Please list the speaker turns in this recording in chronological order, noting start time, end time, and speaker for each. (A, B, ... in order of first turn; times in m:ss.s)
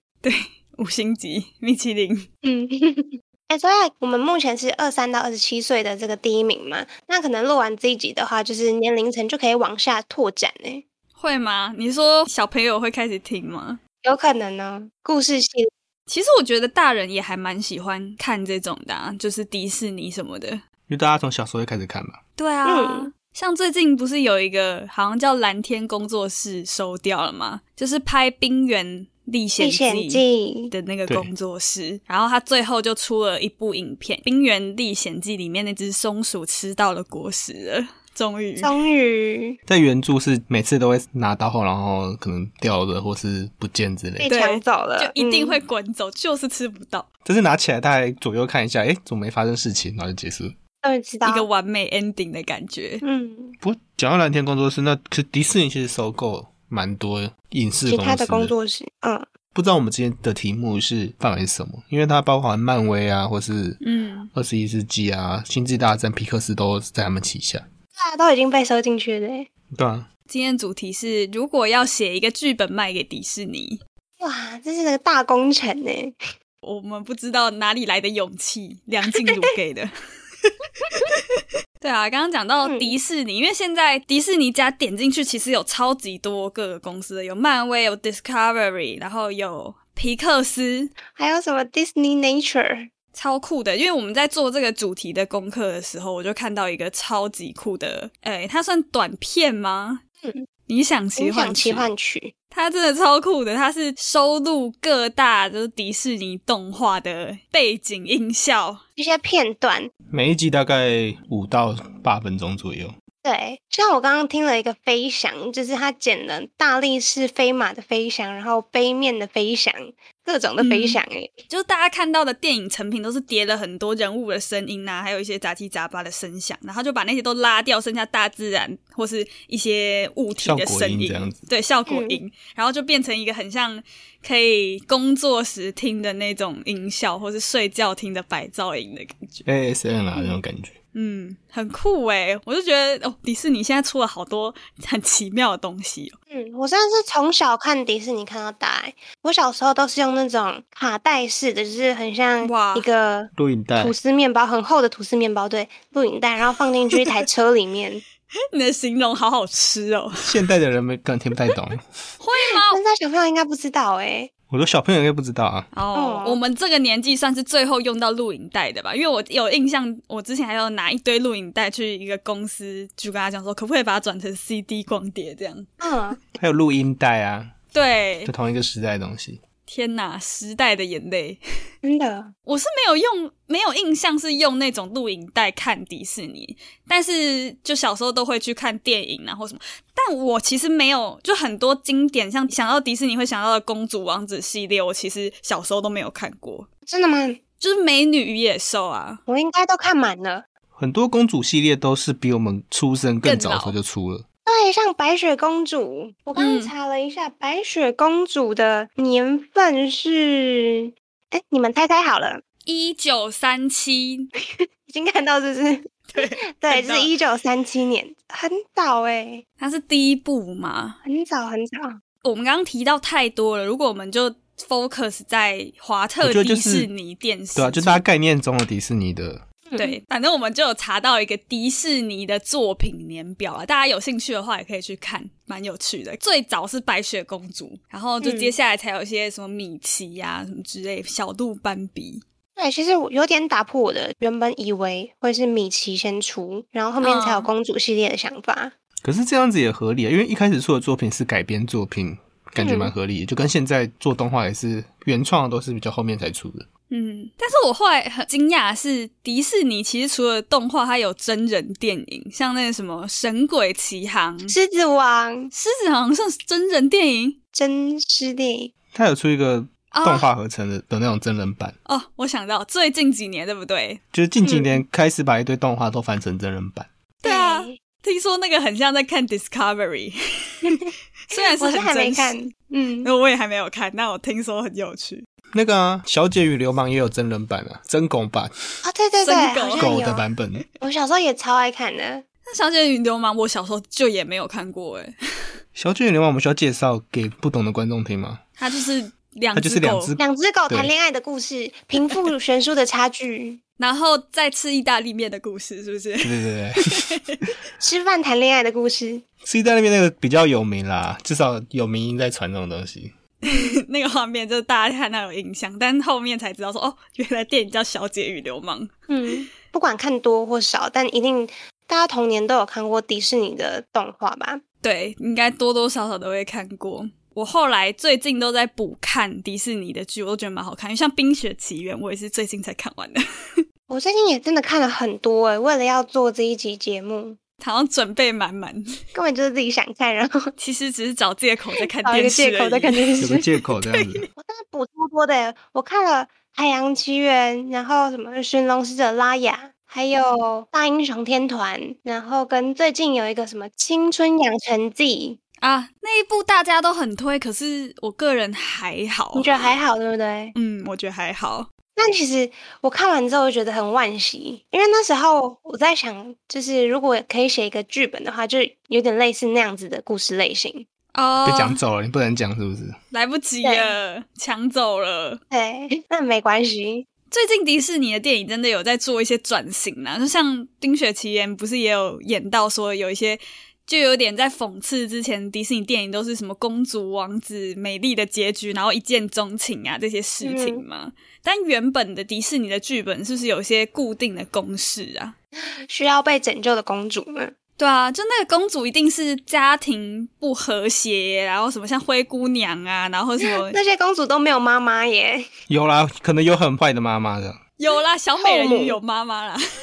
0:00.2-0:02.3 A
0:02.4-0:10.8 B
0:11.2-0:13.8 A
0:14.0-0:15.7 B
0:16.1-0:20.6 A
0:20.9-0:22.2 C
0:22.4-0:38.7 A
0:22.6-0:23.1 B
0:29.6-0:30.7 B
0:38.6-0:39.6 B
0:39.7-0:44.3 C
0:44.2-0:45.6 B
0:44.3-0:47.0 A
0:47.2-0:50.5 C
0:50.8-0:51.4 B
0:51.2-0:53.0 A
0:53.0-0:53.6 B
0:53.6-0:58.5 C
0:57.9-0:59.2 B
0:59.5-1:03.8 C
1:03.8-1:04.3 A
1:04.3-1:07.6 C
1:08.0-1:09.5 B
1:09.7-1:10.1 C
1:10.3-1:13.8 A
1:14.2-1:16.2 B
1:16.6-1:19.9 A
1:20.4-1:21.0 A
1:21.8-1:30.9 A
1:22.6-1:23.0 B
1:31.1-1:32.9 B
1:33.1-1:40.0 A
1:40.7-1:41.9 A
1:41.2-1:42.3 B
1:42.5-1:48.8 A
1:49.0-1:49.9 B
1:50.1-1:52.9 C
1:53.2-2:01.3 B
2:00.6-2:19.4 A
2:10.4-2:11.4 C
2:11.9-2:12.2 B
2:19.4-2:20.7 C
2:20.9-2:26.2 A
2:26.3-2:38.0 B
2:32.4-2:32.9 A
2:33.4-2:33.9 C
2:38.5-2:40.2 A
2:40.2-2:41.8 C
2:42.2-2:42.8 A
2:42.5-2:44.3 B
2:44.5-2:45.7 C
2:45.7-2:55.7 A
2:45.9-2:46.4 B
2:55.8-2:56.2 B
2:56.4-2:57.5 C
2:57.7-2:58.3 A
2:58.2-2:59.4 C
2:59.7-3:01.4 A
3:01.8-3:02.3 B
3:02.5-3:16.7 A
3:16.9-3:17.4 B
3:17.6-3:19.2 A
3:19.3-3:20.4 B
3:20.7-3:24.2 C
3:23.2-3:23.8 A
3:24.4-3:32.4 B
3:26.4-3:26.7 A
3:32.7-3:34.3 A
3:34.9-3:39.4 B
3:36.1-3:37.1 A
3:39.6-3:41.0 A
3:41.0-3:42.0 B
3:42.2-3:48.0 A
3:46.2-3:46.9 C
3:47.5-3:49.4 C
3:49.7-3:49.9 B
3:49.8-4:02.2 A
3:58.2-3:58.5 B
4:02.6-4:08.7 B
4:07.0-4:07.5 A
4:09.0-4:16.6 C
4:12.6-4:12.9 B
4:16.9-4:24.5 A
4:24.5-4:25.5 B
4:25.5-4:27.4 A
4:27.5-4:28.7 B
4:28.9-4:31.8 C
4:29.9-4:30.3 A
4:31.8-4:34.0 A
4:34.1-4:36.9 C
4:34.4-4:34.8 B
4:37.2-4:37.8 B
4:37.2-4:42.5 A
4:40.6-4:43.1 B
4:43.0-4:45.2 A
4:45.5-4:48.5 C
4:48.8-4:50.2 B
4:49.2-4:49.9 A
4:49.8-4:50.6 C
4:50.8-4:52.2 B
4:52.5-4:55.1 A
4:55.8-4:58.4 C
4:58.6-5:00.1 A
4:59.5-5:00.9 C
5:00.2-5:03.6 B
5:03.8-5:06.3 A
5:06.2-5:07.1 C
5:07.0-5:07.4 A
5:07.8-5:09.2 B
5:09.4-5:13.1 C
5:13.4-5:18.9 A
5:13.5-5:13.7 B
5:19.1-5:24.6 B
5:24.8-5:33.2 A
5:33.9-5:37.4 B
5:37.6-5:38.9 A
5:39.1-5:40.5 B
5:40.6-5:43.2 A
5:42.0-5:43.4 B
5:43.2-5:44.2 C
5:44.4-5:55.4 B
5:55.6-5:59.5 A
5:59.4-6:00.5 B
6:00.5-6:01.7 A
6:02.0-6:10.8 B
6:11.1-6:11.8 A
6:11.4-6:13.0 C
6:13.1-6:15.4 A
6:13.6-6:13.9 B
6:15.5-6:17.0 B
6:17.3-6:35.3 A
6:30.4-6:30.8 B
6:35.9-6:37.5 B
6:37.8-6:43.8 A
6:43.4-6:45.5 B
6:45.7-6:47.6 C
6:47.8-6:49.6 A
6:48.4-6:49.0 B